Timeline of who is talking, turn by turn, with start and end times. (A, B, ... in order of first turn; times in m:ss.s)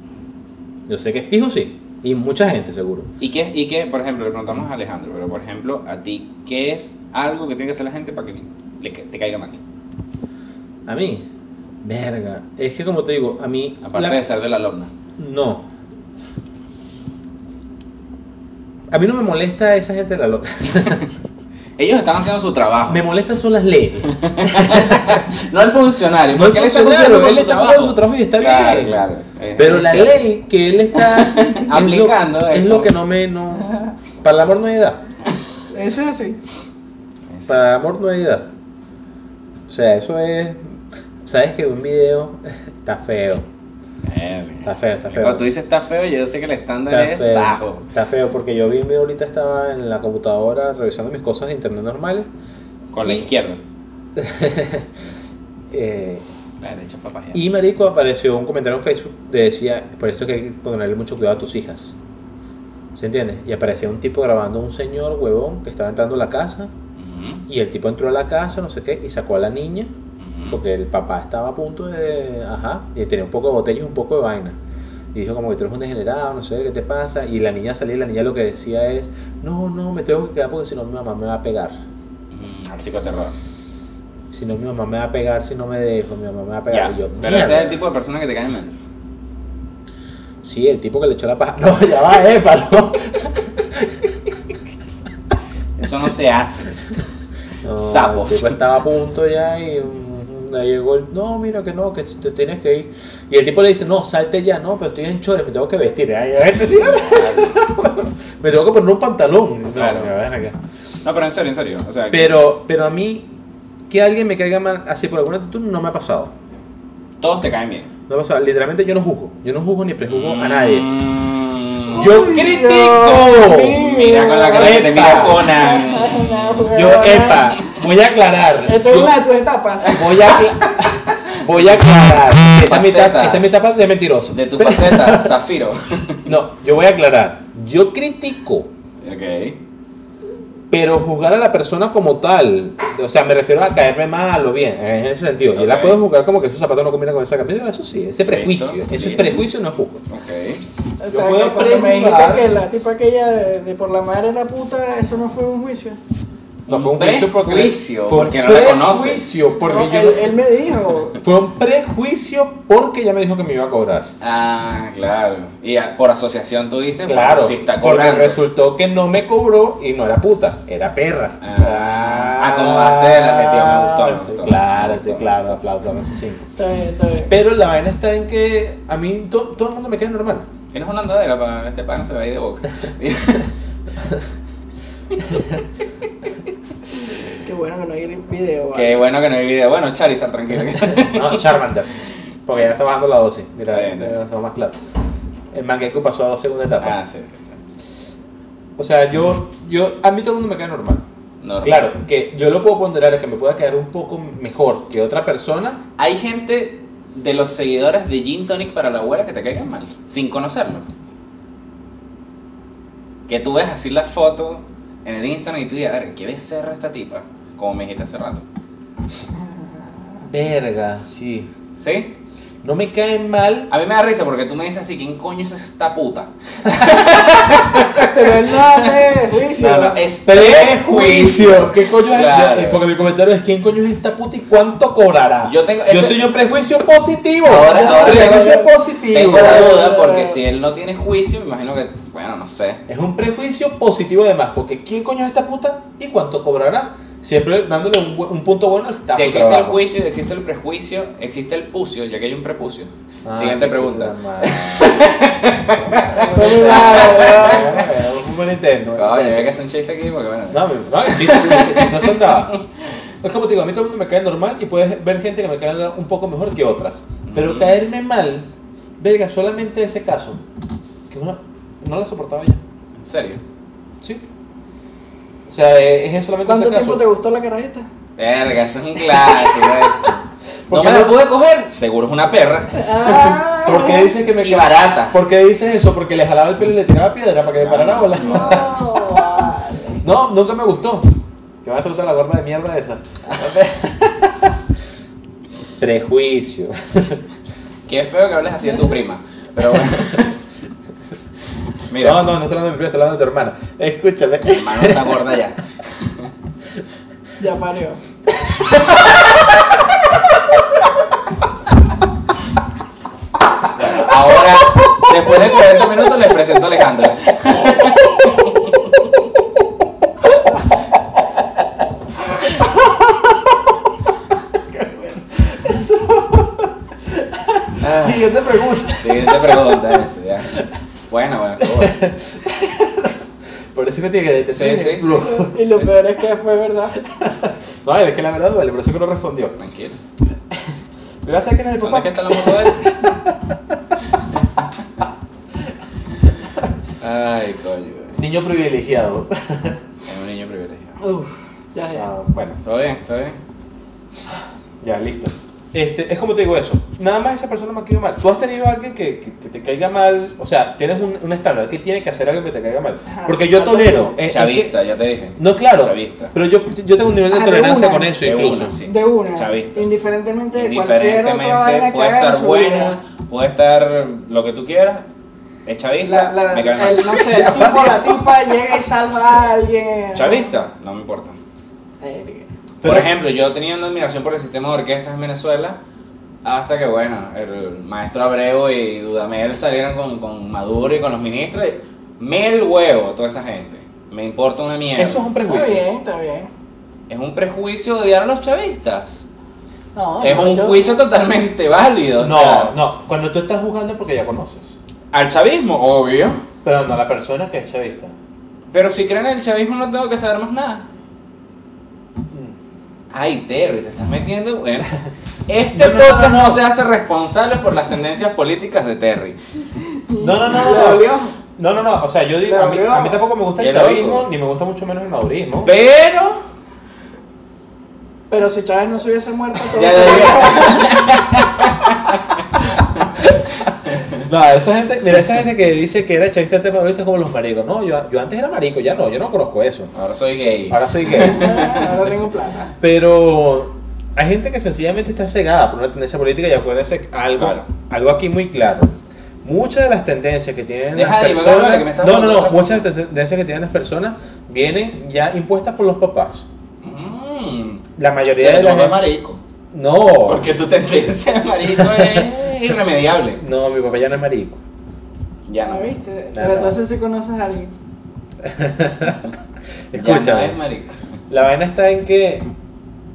0:00.9-0:03.1 A
0:03.2-0:09.6 B
0:10.9-0:11.2 A
0:11.8-0:14.2 A
0:13.8-0:14.9 B
0:15.2-0:15.6 A
0:18.9-0:21.0 A
0:20.7-0:21.1 B
0:21.8-0:23.0 B
0:22.9-0:25.3 A
0:24.1-0:30.2 B
0:26.3-0:29.0 A
0:29.6-0:35.0 A
0:30.9-0:32.9 B
0:35.7-0:36.4 C
0:37.3-0:37.6 B
0:37.5-0:38.5 A
0:39.7-0:43.4 A
0:44.0-0:47.9 B
0:44.6-0:45.5 A
0:46.9-0:52.3 A
0:52.9-0:53.6 B
0:54.2-0:54.9 A
0:55.7-0:56.2 A
0:56.6-0:57.5 B
0:57.3-1:01.9 A
1:02.9-1:06.7 A
1:07.0-1:07.4 B
1:07.5-1:09.9 A
1:10.2-1:10.6 B
1:10.5-1:14.6 A
1:15.1-1:21.8 A
1:22.3-1:23.4 B
1:24.3-1:27.8 A
1:26.7-1:28.7 B
1:30.4-1:34.1 A
1:35.8-1:36.8 B
1:37.6-1:50.6 A
1:37.7-1:38.6 B
1:46.7-1:47.5 B
1:49.8-1:50.1 B
1:51.0-1:52.4 B
1:52.1-1:53.3 A
1:53.9-1:56.3 A
1:57.2-1:57.9 B
1:58.1-2:00.9 A
2:00.1-2:02.2 B
2:01.9-2:03.8 A
2:01.9-2:07.8 C
2:03.6-2:06.7 B
2:04.5-2:05.4 A
2:06.7-2:09.2 A
2:08.6-2:10.5 C
2:09.8-2:10.2 B
2:09.8-2:15.3 A
2:11.3-2:11.7 B
2:12.6-2:13.6 B
2:14.3-2:16.3 B
2:16.2-2:18.7 A
2:19.0-2:19.6 B
2:20.7-2:30.0 A
2:25.5-2:26.0 B
2:28.3-2:29.4 B
2:30.1-2:30.6 B
2:31.0-2:36.0 C
2:31.1-2:32.5 A
2:36.7-2:39.3 B
2:36.7-2:40.3 A
2:39.6-2:41.2 C
2:41.2-2:44.1 A
2:44.2-2:48.4 B
2:47.0-2:56.5 A
2:51.4-2:55.5 B
2:56.6-2:57.3 C
2:57.3-3:00.5 A
3:00.7-3:03.5 B
3:07.3-3:09.0 C
3:08.7-3:11.5 B
3:10.9-3:11.9 A
3:12.4-3:14.8 A
3:13.7-3:14.2 B
3:15.5-3:17.0 A
3:16.8-3:17.6 B
3:18.8-3:21.0 A
3:21.4-3:21.9 B
3:21.6-3:25.8 A
3:26.0-3:30.9 B
3:33.3-3:38.4 B
3:40.3-3:41.5 A
3:41.8-3:42.1 B
3:42.6-3:43.7 A
3:43.7-3:48.9 B
3:48.0-3:50.0 C
3:49.6-3:59.8 A
3:49.8-3:52.8 B
3:55.4-3:56.2 B
3:57.4-4:02.8 B
3:57.7-3:58.7 C
3:59.3-4:00.4 C
4:02.9-4:09.8 A
4:09.1-4:17.9 B
4:13.2-4:15.0 A
4:15.8-4:19.5 A
4:16.2-4:17.7 C
4:19.0-4:22.6 B
4:20.5-4:22.6 A
4:23.2-4:28.5 A
4:27.2-4:27.8 B
4:29.0-4:30.4 A
4:31.1-4:32.6 A
4:33.0-4:33.4 B
4:35.5-4:37.0 A
4:36.4-4:37.9 C
4:38.2-4:40.1 B
4:40.7-4:41.2 A
4:40.7-4:43.4 B
4:42.7-4:44.1 C
4:43.6-4:48.9 A
4:44.4-4:45.2 B
4:47.6-4:48.7 B
4:48.2-4:50.0 C
4:50.0-4:51.1 A
4:51.6-4:54.5 A
4:55.8-4:57.2 A
4:57.9-5:00.4 B
5:01.8-5:02.3 B
5:02.0-5:05.3 A
5:04.5-5:06.3 B
5:07.4-5:08.0 C
5:13.7-5:18.7 B
5:22.3-5:23.5 A
5:24.6-5:30.0 A
5:27.8-5:28.3 B
5:28.9-5:32.0 B
5:31.6-5:33.2 A
5:33.7-5:35.6 A
5:34.5-5:35.5 B
5:35.4-5:37.0 C
5:37.0-5:39.6 A
5:39.6-5:40.0 B
5:41.2-5:43.8 A
5:41.8-5:43.0 B
5:47.0-5:48.2 B
5:48.2-5:49.8 A
5:50.0-5:51.0 B
5:51.0-5:52.1 C
5:51.9-5:52.6 A
5:52.6-5:53.4 B
5:54.8-6:04.7 A
6:03.1-6:04.1 C
6:04.3-6:06.3 B
6:05.4-6:08.8 A
6:07.3-6:08.1 C
6:08.2-6:09.9 B
6:08.8-6:13.0 C
6:10.5-6:15.0 B
6:15.6-6:17.3 B
6:16.0-6:20.5 C
6:17.2-6:18.5 A
6:20.1-6:21.4 B
6:22.0-6:22.5 C
6:22.8-6:23.1 A
6:22.8-6:25.8 B
6:26.4-6:35.3 B
6:35.0-6:35.8 A
6:35.4-6:36.5 C
6:37.1-6:39.3 B
6:39.9-6:40.9 C
6:40.2-6:42.7 B
6:42.2-6:44.7 A
6:45.1-6:46.4 B
6:46.6-6:48.1 A
6:48.7-6:50.8 B
6:52.3-6:52.6 A
6:53.1-6:54.9 B
6:55.5-6:59.4 B
6:55.7-6:56.6 A
6:59.7-7:01.4 C
7:00.2-7:05.7 A
7:02.4-7:03.2 C
7:03.6-7:04.3 B
7:05.6-7:06.4 B
7:08.3-7:10.9 C
7:09.7-7:13.1 B
7:09.9-7:10.5 A
7:13.6-7:14.2 B
7:14.2-7:19.9 A
7:19.9-7:21.9 B
7:20.7-7:21.6 A
7:21.1-7:22.7 C
7:22.8-7:28.9 A
7:27.4-7:27.7 B
7:29.4-7:36.5 A
7:30.9-7:32.8 B
7:36.8-7:37.8 B
7:38.0-7:39.0 A
7:38.4-7:39.4 B
7:39.7-7:40.5 A
7:40.2-7:43.4 B
7:41.8-7:42.2 A
7:43.4-7:44.6 A
7:45.5-7:45.9 B
7:45.6-7:47.7 C
7:46.3-7:46.8 A
7:48.4-7:49.3 A
7:49.9-7:50.6 A
7:49.9-7:51.0 B
7:51.3-7:52.5 A